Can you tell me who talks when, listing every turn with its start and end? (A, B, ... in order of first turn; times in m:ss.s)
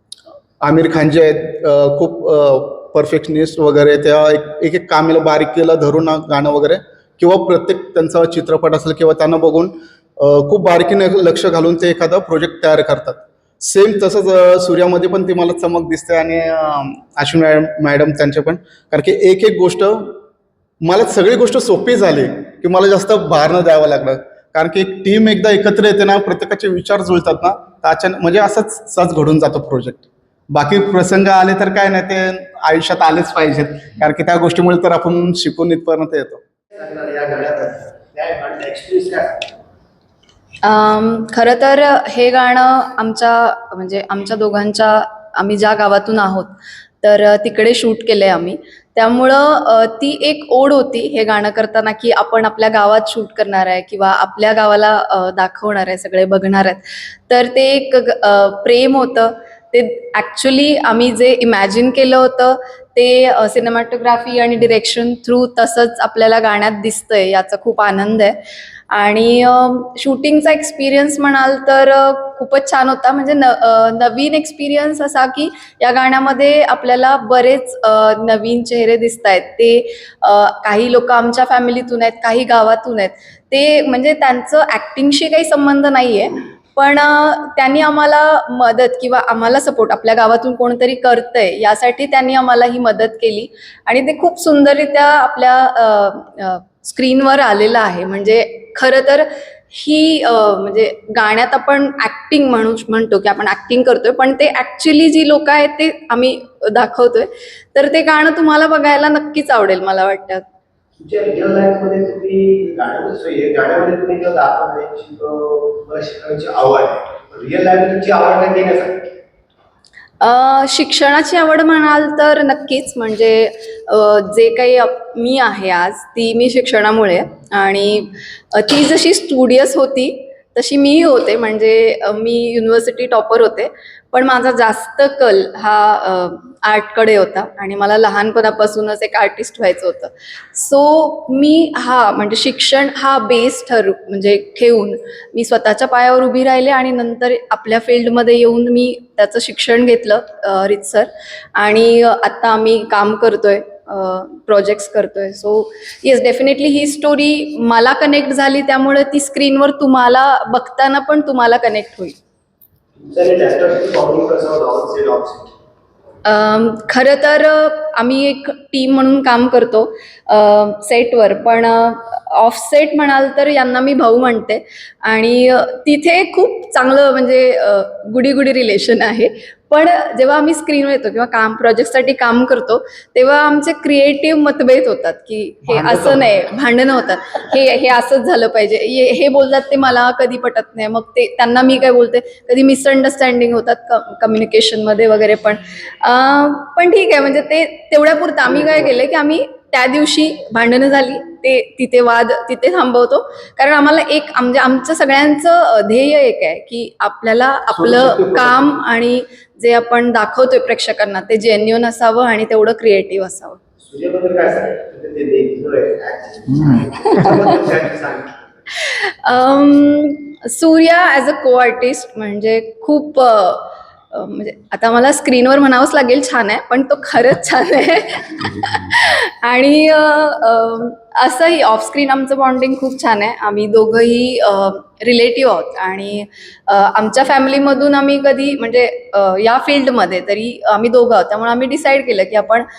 0:00.6-0:20.1 A
0:20.8-0:36.4 A
0:36.8-0:39.6 B
0:40.6-1:08.4 C
1:08.9-1:50.4 C
1:51.0-1:59.2 B
2:00.2-2:42.2 C
2:43.0-2:45.5 B
2:46.3-3:33.6 C
3:05.7-3:06.4 A
3:27.7-3:28.8 A
3:33.8-3:38.5 B
3:38.8-4:02.6 C